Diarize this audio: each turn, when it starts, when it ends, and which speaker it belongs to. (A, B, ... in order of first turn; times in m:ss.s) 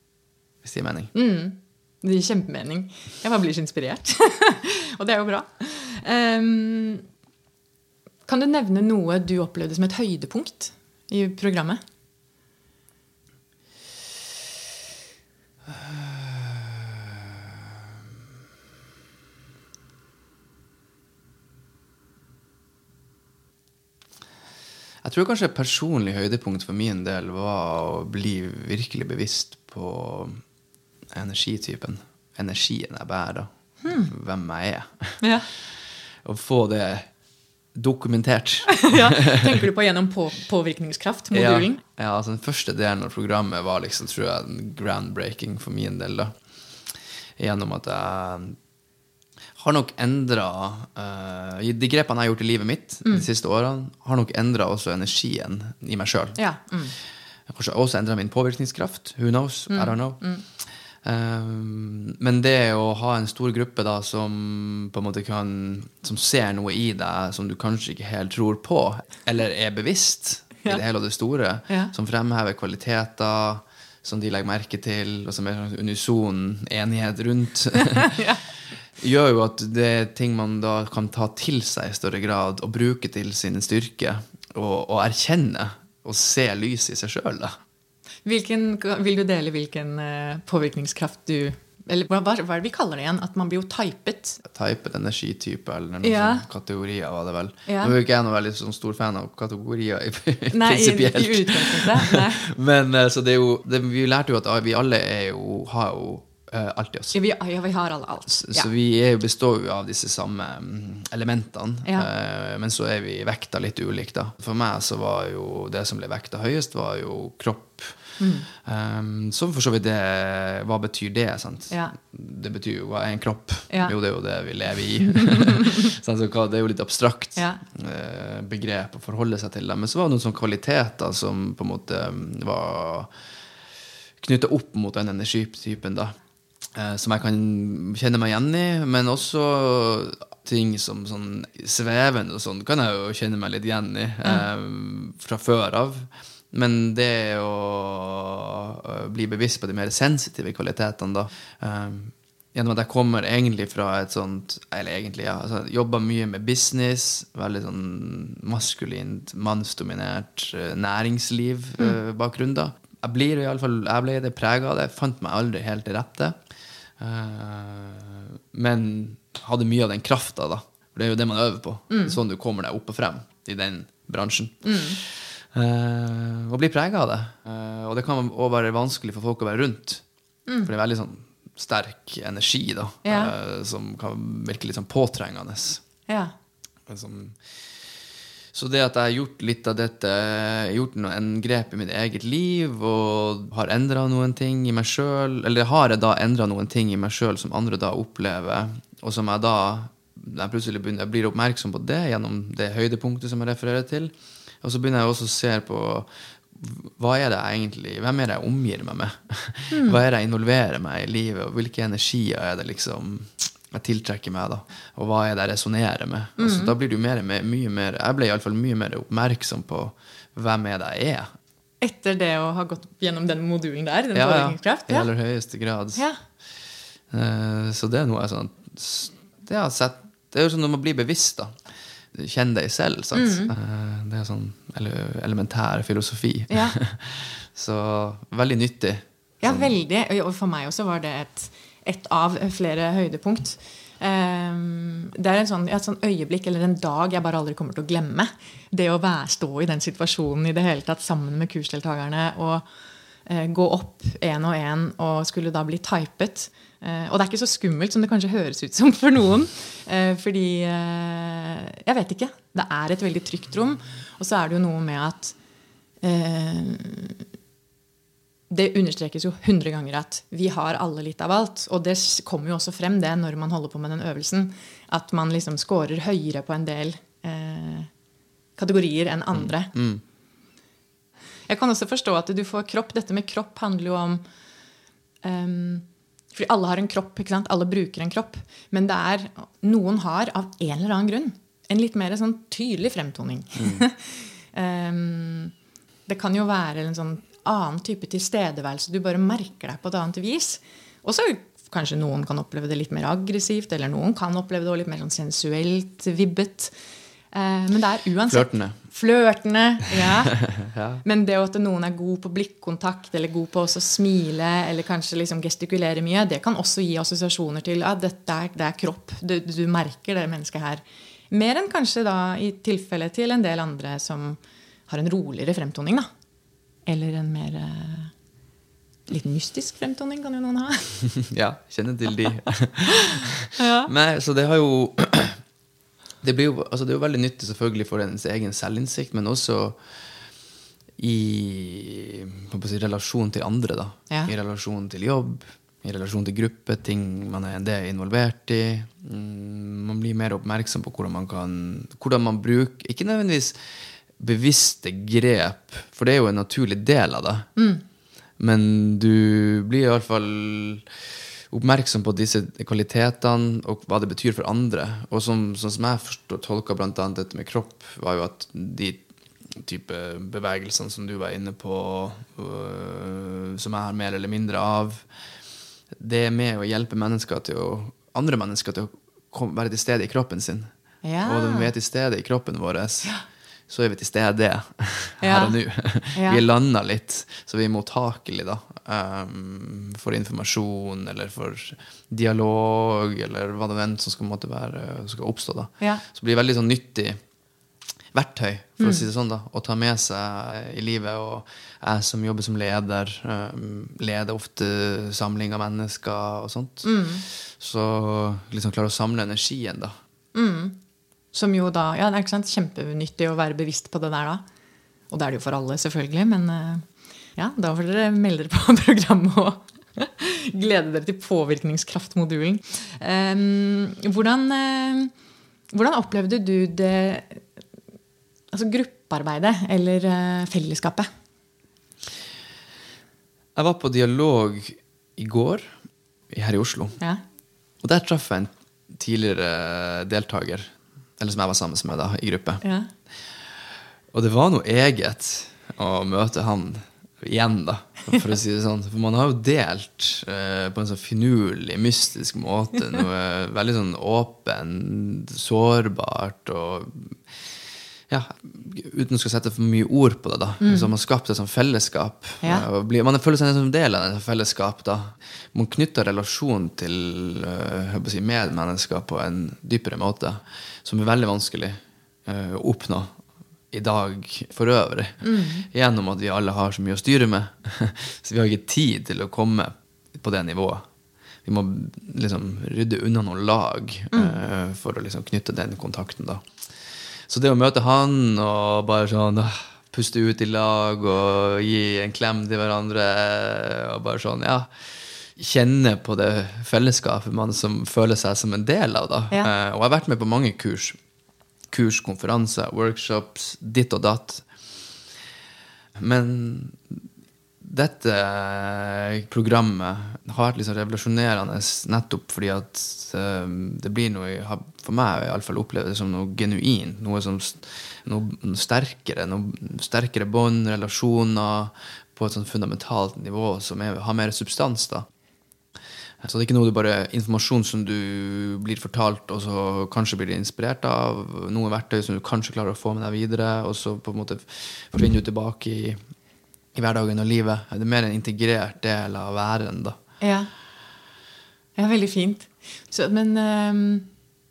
0:00.6-0:01.1 A
0:01.1-0:07.0 B
0:08.2-0:11.8 B
0:15.7-0:17.5 A
0:25.0-0:30.4 A
0:31.1-0:35.6 A
0:33.8-0:34.1 B
0:35.2-0:35.5 B
0:36.2-0:37.1 A
0:37.8-0:39.5 A
0:38.8-0:41.8 B
0:41.3-0:46.4 A
0:47.4-0:48.6 A
0:49.6-0:56.4 A
0:56.4-0:57.0 B
0:57.5-1:00.2 A
0:59.7-1:00.4 B
1:01.0-1:18.2 A
1:17.9-1:18.4 B
1:19.0-1:27.6 A
1:28.2-1:34.4 B
1:34.4-1:47.2 A
1:36.0-1:36.5 B
1:37.6-1:38.0 B
1:40.5-1:42.4 B
1:47.1-1:48.7 B
1:48.4-1:58.0 A
1:58.2-1:58.5 B
1:58.6-2:13.1 A
2:01.7-2:01.9 B
2:03.7-2:03.9 B
2:05.1-2:05.9 B
2:07.4-2:07.6 B
2:14.2-2:16.1 A
2:16.8-2:46.4 A
2:47.0-3:00.0 A
2:51.9-2:52.2 B
2:54.6-2:55.0 B
3:00.6-3:05.8 A
3:03.0-3:03.3 B
3:06.1-3:06.3 B
3:06.9-3:07.4 A
3:08.5-3:41.3 A
3:29.7-3:30.0 B
3:36.4-3:36.8 B
3:41.8-3:45.1 B
3:44.2-3:46.0 A
3:47.1-3:51.5 A
3:52.1-3:59.7 A
3:53.1-3:53.5 B
3:56.5-3:56.8 B
3:59.4-4:12.6 B
4:13.2-4:25.4 B
4:26.0-4:27.2 B
4:28.5-4:37.9 B
4:38.6-4:39.7 B
4:39.3-4:40.0 A
4:41.5-4:44.2 B
4:45.2-4:55.5 B
4:53.6-4:53.8 A
4:56.1-5:06.7 B
5:07.3-5:10.4 B
5:08.3-5:08.8 A
5:10.3-5:11.0 A
5:11.0-5:26.1 B
5:26.8-5:28.1 B
5:29.1-5:31.0 B
5:31.2-5:35.4 A
5:32.9-5:33.9 B
5:36.2-5:39.8 A
5:41.0-5:53.6 A
5:54.2-5:57.5 A
5:57.6-5:57.8 B
5:58.4-6:00.8 A
6:01.5-6:09.0 A
6:09.6-6:15.0 A
6:16.0-6:20.7 A
6:21.0-6:21.7 B
6:21.2-6:23.1 A
6:23.7-6:37.2 A
6:25.2-6:25.6 B
6:26.1-6:26.4 B
6:38.1-6:50.0 A
6:38.8-6:39.0 B
6:46.8-6:47.2 B
6:50.3-6:50.8 B
6:51.3-6:54.4 B
6:55.1-7:05.1 B
7:05.7-7:07.5 B
7:08.5-7:11.1 B
7:13.6-7:15.7 A
7:16.3-7:17.0 A
7:17.8-7:22.6 A
7:22.6-7:22.9 B
7:24.1-7:37.2 A
7:38.1-7:53.2 A
7:40.6-7:40.9 B
7:53.7-8:00.8 A
7:55.2-7:55.7 B
8:01.4-8:06.4 A
8:04.1-8:04.4 B
8:07.3-8:14.7 A
8:15.4-8:21.0 A
8:21.7-8:24.4 A
8:26.0-8:27.0 A
8:27.6-8:45.1 A
8:46.2-8:56.0 A
8:56.8-9:00.0 A
9:00.2-9:00.5 B
9:01.8-9:04.1 B